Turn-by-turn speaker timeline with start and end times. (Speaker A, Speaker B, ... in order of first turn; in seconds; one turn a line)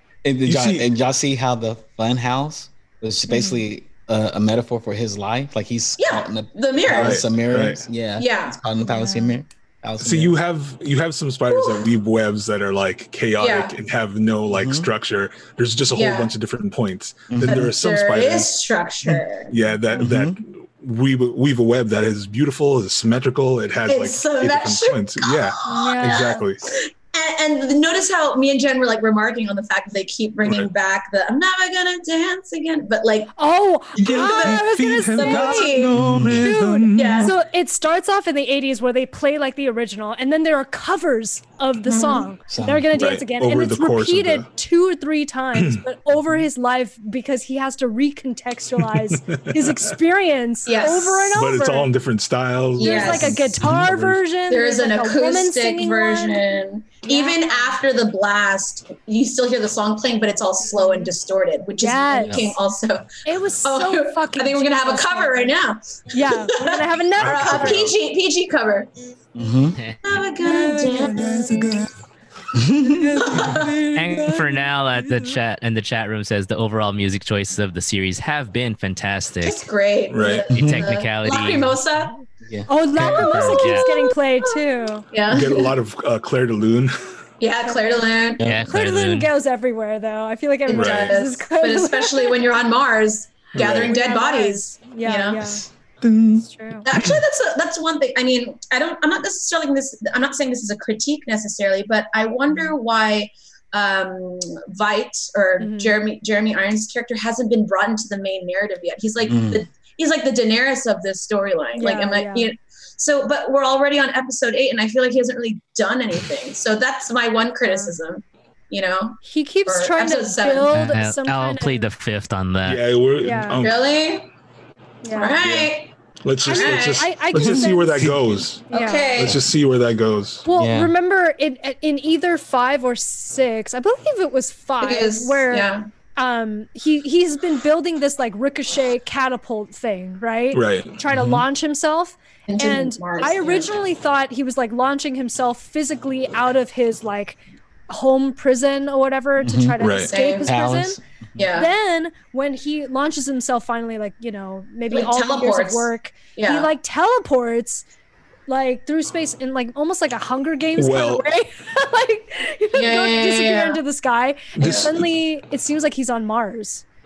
Speaker A: 0.2-10.3
Speaker B: 0.5-0.9
Speaker C: 3.3-3.7
Speaker D: 6.0-7.3
Speaker B: 6.9-7.8
Speaker D: 8.2-8.6
Speaker C: 8.9-9.4
Speaker B: 10.0-18.5
Speaker D: 11.5-11.9
Speaker D: 13.4-13.7
Speaker A: 14.5-14.9
Speaker D: 15.9-16.3
Speaker A: 17.3-17.7
Speaker D: 17.4-19.5
Speaker B: 19.5-26.6
Speaker A: 20.0-20.4
Speaker D: 23.9-33.3
Speaker C: 25.7-26.4
Speaker B: 30.4-30.7
Speaker C: 33.4-51.9
Speaker D: 34.0-36.0
Speaker B: 34.0-37.3
Speaker A: 36.0-36.5
Speaker D: 37.0-37.3
Speaker D: 41.9-42.3
Speaker A: 42.5-42.9
Speaker B: 42.9-44.5
Speaker B: 45.5-45.8
Speaker B: 48.8-50.0
Speaker D: 50.7-51.4
Speaker B: 51.3-54.2
Speaker D: 52.8-53.5
Speaker C: 52.8-56.5
Speaker D: 54.5-63.1
Speaker C: 57.0-57.8
Speaker C: 60.7-61.1
Speaker C: 61.8-62.5
Speaker A: 62.2-62.5
Speaker C: 63.2-65.5
Speaker D: 63.6-68.9
Speaker C: 66.1-67.9
Speaker B: 67.2-68.0
Speaker A: 69.3-69.8
Speaker D: 70.0-71.7
Speaker C: 70.4-71.9
Speaker A: 72.5-73.2
Speaker C: 72.8-74.6
Speaker D: 73.2-73.8
Speaker E: 73.9-79.7
Speaker D: 79.4-82.2
Speaker B: 80.1-80.5
Speaker A: 80.5-80.9
Speaker E: 80.5-81.8
Speaker A: 82.5-83.6
Speaker C: 82.7-85.1
Speaker E: 83.0-83.9
Speaker D: 83.5-84.1
Speaker D: 85.1-85.7
Speaker B: 85.3-87.0
Speaker D: 87.4-88.4
Speaker C: 87.7-88.0
Speaker A: 88.4-88.7
Speaker E: 88.4-89.3
Speaker C: 88.7-92.4
Speaker D: 90.7-95.6
Speaker B: 90.7-91.2
Speaker B: 93.5-94.0
Speaker C: 93.9-95.7
Speaker B: 96.0-96.4
Speaker C: 96.4-96.9
Speaker D: 96.8-120.7
Speaker C: 105.6-106.0
Speaker A: 109.2-109.7
Speaker C: 111.8-112.5
Speaker C: 117.7-118.0
Speaker C: 119.2-121.9
Speaker E: 120.7-122.8
Speaker B: 122.7-123.8
Speaker C: 123.2-123.6
Speaker D: 123.6-124.3
Speaker C: 125.0-125.4
Speaker D: 125.1-125.9
Speaker A: 125.4-125.7
Speaker B: 126.2-128.7
Speaker C: 126.5-129.3
Speaker D: 126.5-127.1
Speaker A: 127.4-128.2
Speaker D: 128.7-129.4
Speaker B: 129.2-130.5
Speaker C: 130.5-151.0
Speaker A: 130.6-130.9
Speaker D: 134.8-135.8
Speaker B: 140.5-141.0
Speaker A: 141.1-141.5
Speaker D: 142.5-143.7
Speaker A: 149.4-149.8
Speaker B: 149.8-150.1
Speaker D: 150.0-150.5
Speaker A: 150.4-151.2
Speaker D: 151.4-151.7
Speaker C: 151.5-157.8
Speaker D: 154.9-156.7
Speaker C: 158.5-166.8
Speaker B: 160.8-161.3
Speaker D: 162.8-163.8
Speaker B: 164.6-165.1
Speaker D: 164.6-164.9